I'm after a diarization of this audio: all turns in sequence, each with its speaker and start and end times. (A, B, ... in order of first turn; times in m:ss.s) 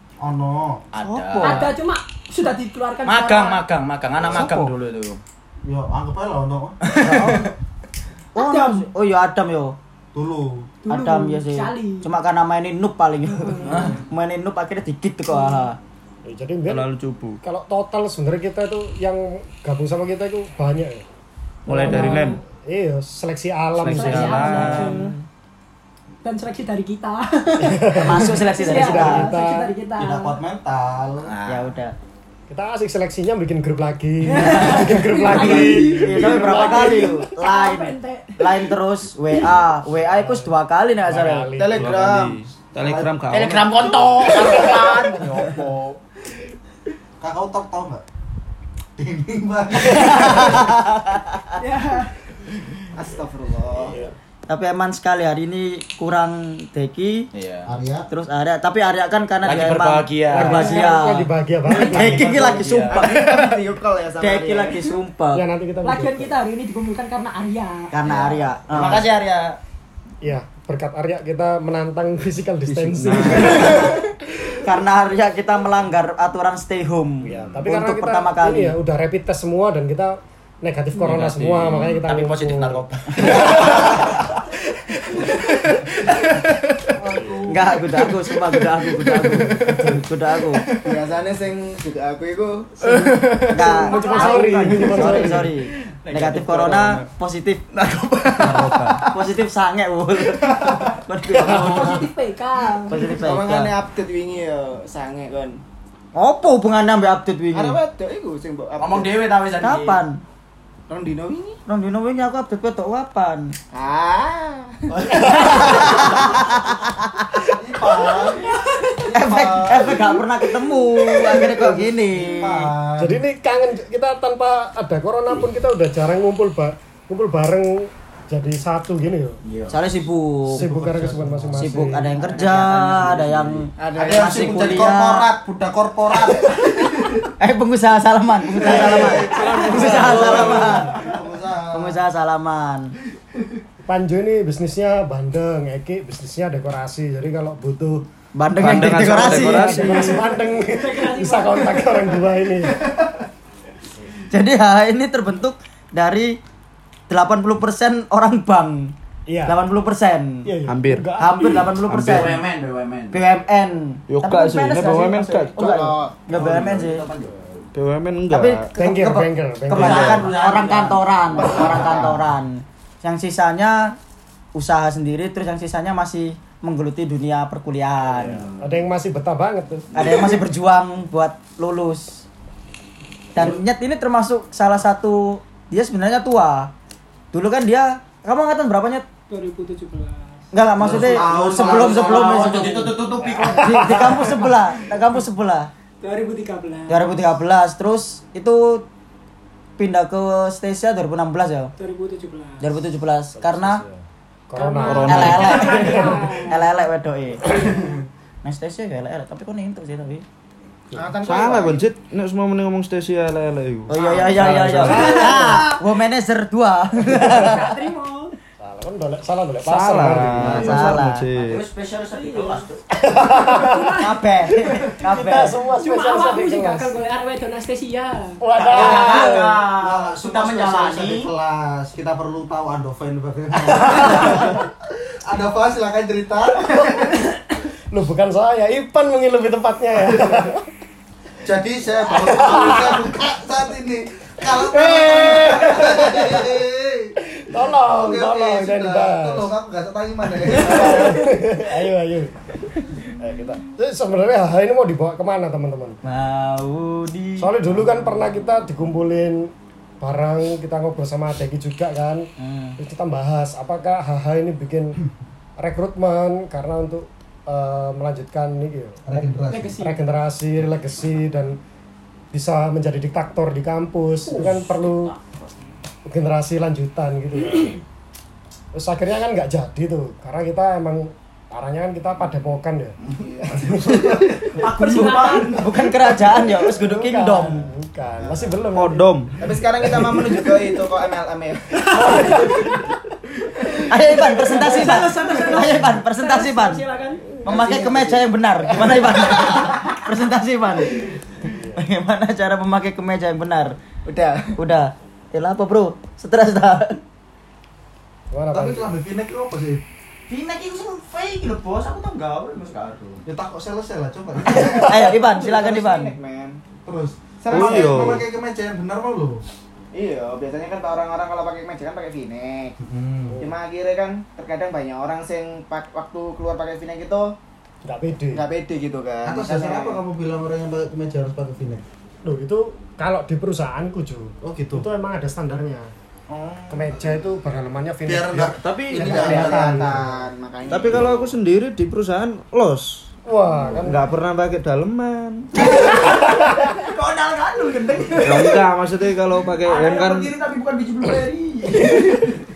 0:00.2-0:00.9 A
0:00.9-0:01.7 B
0:01.2-0:03.6 C
0:03.0-0:05.2 B
0:04.3-0:04.7 D
0:05.6-0:07.5 A
0:06.8-0:07.5 B
0:07.0-0:07.5 E
0:08.3-0:09.8 E
0:08.4-0:08.9 C
0:10.1-0:10.7 A
0:10.8-0:12.1 C
0:10.9-0:15.8 E
0:13.3-0:13.9 C
0:13.7-0:14.0 B
0:15.3-0:15.7 C
0:16.2-0:16.9 F
0:16.7-0:17.4 D
0:17.4-0:21.0 F
0:21.7-0:22.4 D
0:21.7-0:22.4 C
0:21.7-0:24.9 F
0:23.8-0:25.2 D
0:23.8-0:25.2 C
0:26.2-0:30.4 C
0:27.6-0:29.7 F
0:28.0-0:29.3 E
0:30.0-0:31.3 A
0:31.2-0:31.7 B
0:31.5-0:31.9 E
0:32.5-0:36.5 F
0:34.3-0:38.7 C
0:34.5-0:41.5 E
0:40.1-0:41.9 F
0:41.6-0:42.4 G
0:41.7-0:44.3 D
0:42.8-0:43.4 A
0:43.3-0:45.4 B
0:44.3-0:44.8 F
0:44.6-0:45.3 G
0:47.2-0:48.0 A
0:49.0-0:50.8 A
0:49.8-0:51.5 E
0:51.5-0:52.1 C
0:53.0-0:53.9 G
0:53.8-0:54.1 F
0:54.5-0:57.3 E
0:57.3-0:57.7 B
0:57.6-0:58.1 A
0:58.1-1:03.6 E
0:59.4-1:00.6 B
1:00.3-1:02.6 F
1:00.5-1:01.1 C
1:01.8-1:02.9 D
1:02.6-1:02.9 B
1:02.9-1:05.0 G
1:04.2-1:05.4 E
1:05.3-1:06.4 F
1:05.8-1:08.0 C
1:07.9-1:09.1 E
1:08.0-1:09.6 B
1:10.2-1:13.9 F
1:12.7-1:13.9 D
1:13.4-1:14.0 E
1:14.6-1:18.7 E
1:17.2-1:24.0 F
1:21.0-1:22.0 D
1:21.9-1:24.3 B
1:26.9-1:27.8 A
1:27.1-1:27.4 F
1:27.5-1:30.6 E
1:30.8-1:33.8 G
1:33.5-1:37.6 E
1:33.5-1:35.2 C
1:34.0-1:35.5 F
1:35.1-1:35.5 D
1:36.0-1:37.0 D
1:36.2-1:36.4 B
1:38.2-1:39.0 D
1:38.4-1:38.6 B
1:39.1-1:42.1 E
1:41.4-1:43.1 C
1:41.4-1:41.9 F
1:42.9-1:43.7 E
1:43.0-1:45.6 G
1:46.1-1:47.8 E
1:47.5-1:49.1 G
1:48.8-1:50.0 B
1:49.6-1:50.2 E
1:50.9-1:51.6 G
1:51.7-1:53.5 E
1:53.7-1:56.5 G
1:54.9-1:56.7 A
1:55.1-1:55.6 F
1:55.2-1:55.8 B
1:55.2-1:57.3 E
1:57.4-2:00.2 A
1:57.9-1:58.2 G
1:58.2-1:59.1 C
1:59.1-2:02.7 E
2:01.2-2:03.2 A
2:03.0-2:09.4 F
2:09.4-2:09.8 B
2:09.7-2:10.7 E
2:10.5-2:12.1 F
2:10.5-2:12.2 A
2:11.5-2:15.3 E
2:12.2-2:13.4 B
2:12.9-2:13.5 D
2:13.8-2:14.9 G
2:13.9-2:17.2 A
2:17.4-2:20.9 E
2:18.6-2:22.0 A
2:19.3-2:20.0 C
2:19.9-2:20.2 G
2:19.9-2:20.6 B
2:21.7-2:22.9 E
2:23.8-2:28.1 F
2:28.4-2:29.9 E
2:28.6-2:30.2 D
2:28.6-2:32.8 F
2:29.6-2:32.3 C
2:34.3-2:36.4 E
2:37.1-2:38.9 E
2:39.3-2:39.6 F
2:39.4-2:40.5 E
2:40.4-2:41.7 F
2:40.7-2:41.1 D
2:41.2-2:42.4 E
2:41.8-2:42.4 D
2:42.1-2:43.2 B
2:43.1-2:47.0 E
2:44.1-2:45.9 D
2:45.6-2:46.2 G
2:46.3-2:47.6 B
2:47.7-2:48.7 D
2:48.3-2:54.0 E
2:48.8-2:50.3 F
2:49.7-2:52.2 B
2:49.8-2:50.2 D
2:51.5-2:52.1 A
2:54.5-2:58.4 E
2:58.1-2:58.8 B
2:58.6-3:00.0 F
2:59.9-3:02.2 E
3:03.3-3:06.7 E
3:07.3-3:09.1 E
3:09.3-3:10.4 C
3:10.5-3:15.7 E
3:10.8-3:12.8 A
3:10.8-3:14.0 B
3:13.2-3:14.5 F
3:16.0-3:17.1 C
3:16.9-3:18.8 E
3:19.8-3:21.7 E
3:21.8-3:22.6 C
3:22.6-3:23.8 E
3:23.4-3:26.2 F
3:24.5-3:26.7 C
3:24.8-3:26.1 D
3:25.0-3:27.6 E
3:28.4-3:30.2 E
3:30.9-3:31.9 G
3:31.2-3:35.2 D
3:33.9-3:37.6 E
3:34.0-3:34.3 G
3:34.8-3:35.6 F
3:34.9-3:35.7 C
3:37.2-3:38.3 C
3:38.6-3:40.9 F
3:39.6-3:41.6 D
3:40.4-3:41.2 E
3:40.7-3:43.2 B
3:42.1-3:42.7 C
3:43.0-3:44.0 F
3:43.5-3:44.1 C
3:44.0-3:45.6 E
3:44.5-3:47.0 F
3:45.8-3:48.4 C
3:48.4-3:49.6 F
3:48.6-3:51.3 B
3:48.8-3:49.3 E
3:49.1-3:54.7 A
3:53.7-3:54.5 F
3:55.2-3:57.2 A
3:57.9-4:00.6 F
4:00.1-4:00.5 A
4:01.4-4:11.2 A
4:02.1-4:03.1 F
4:04.4-4:06.6 F
4:07.3-4:09.5 F
4:10.5-4:16.0 F
4:16.0-4:17.9 E
4:17.4-4:25.0 F
4:22.4-4:22.8 E
4:25.6-4:31.6 F
4:29.0-4:29.8 A
4:29.5-4:30.0 C
4:32.3-4:35.1 F
4:34.4-4:35.5 B
4:36.0-4:37.8 F
4:37.5-4:37.8 C
4:38.7-4:44.2 F
4:43.1-4:43.8 G
4:43.5-4:44.6 A
4:44.1-4:45.5 B
4:44.6-4:47.6 E
4:44.6-4:46.0 C
4:46.6-4:49.1 F
4:48.2-4:48.7 A
4:48.7-4:49.4 D
4:49.4-4:52.8 G
4:51.9-4:52.8 F
4:53.9-4:56.8 E
4:54.4-4:57.3 C
4:57.4-5:03.8 E
4:57.5-4:58.2 G
4:59.0-4:59.9 G
5:01.4-5:01.8 F
5:04.0-5:04.6 G
5:04.6-5:07.0 E
5:08.3-5:08.9 F
5:08.5-5:09.8 A
5:10.3-5:13.2 B
5:13.2-5:15.2 A
5:14.4-5:16.1 E
5:15.0-5:16.6 G
5:16.8-5:19.4 A
5:17.4-5:18.2 G
5:17.5-5:18.2 D
5:19.9-5:22.7 G
5:22.8-5:23.4 A
5:23.3-5:23.5 F
5:23.4-5:27.3 G
5:27.8-5:28.4 F
5:28.3-5:30.0 G
5:29.2-5:31.8 A
5:32.2-5:35.9 F
5:34.4-5:34.8 A
5:36.3-5:37.4 A
5:36.7-5:40.0 F
5:38.0-5:40.1 A
5:38.6-5:39.3 D
5:39.0-5:41.2 G
5:40.7-5:43.1 D
5:40.8-5:41.3 A
5:43.2-5:44.1 F
5:43.8-5:45.7 D
5:45.6-5:48.6 B
5:46.0-5:46.7 F
5:48.2-5:50.3 D
5:49.6-5:52.3 B